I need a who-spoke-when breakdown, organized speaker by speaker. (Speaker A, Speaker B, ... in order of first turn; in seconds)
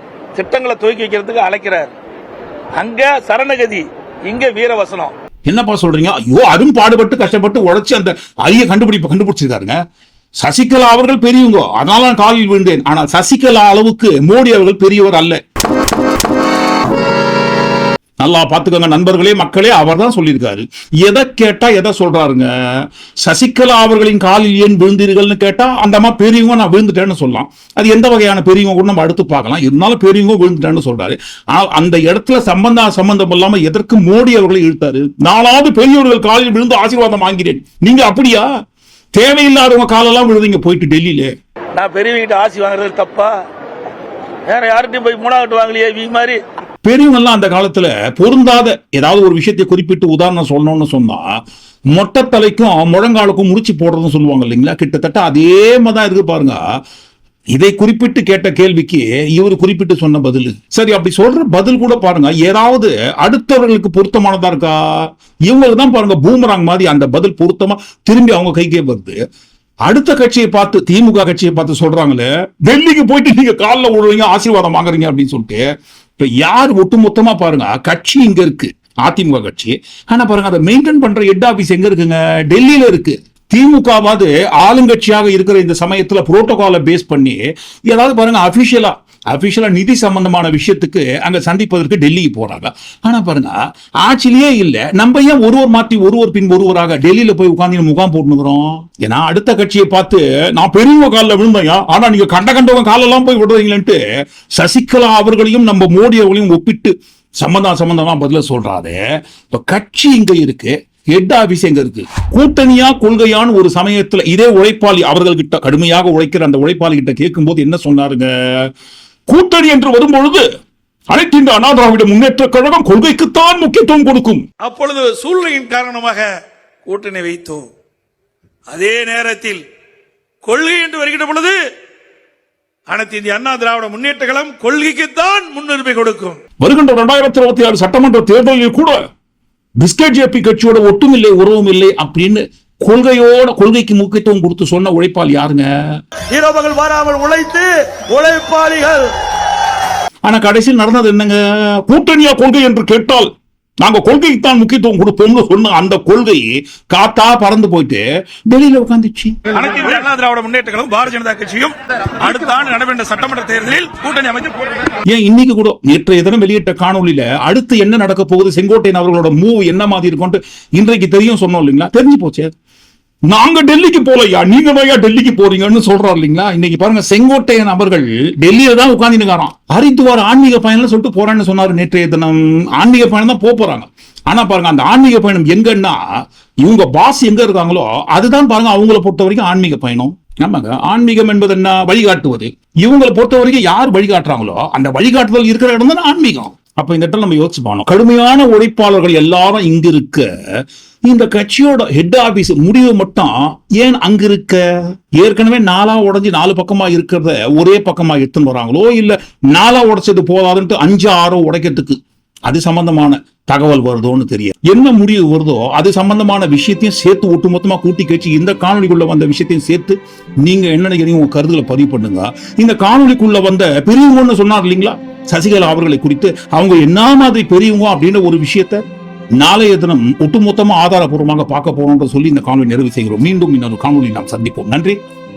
Speaker A: 0.3-1.9, 2.8-5.1, 41.8-43.3, 44.5-46.4, 124.6-126.3, 126.9-127.7, 128.7-129.6, 130.4-131.6, 132.9-136.4
Speaker B: 5.5-9.8, 10.4-15.4, 18.2-22.5, 23.2-38.5, 39.1-41.3, 46.8-51.2, 51.9-56.6, 57.5-69.2, 69.9-75.6, 76.2-104.0, 104.6-109.0, 109.5-118.7, 119.3-120.4, 121.1-124.4, 136.6-139.0, 139.8-145.7, 150.2-153.3, 153.8-159.4, 165.1-172.5, 173.3-186.0, 186.6-200.3, 201.1-204.6, 205.2-228.8, 229.4-235.0
Speaker C: 146.3-149.1
Speaker D: 159.5-164.7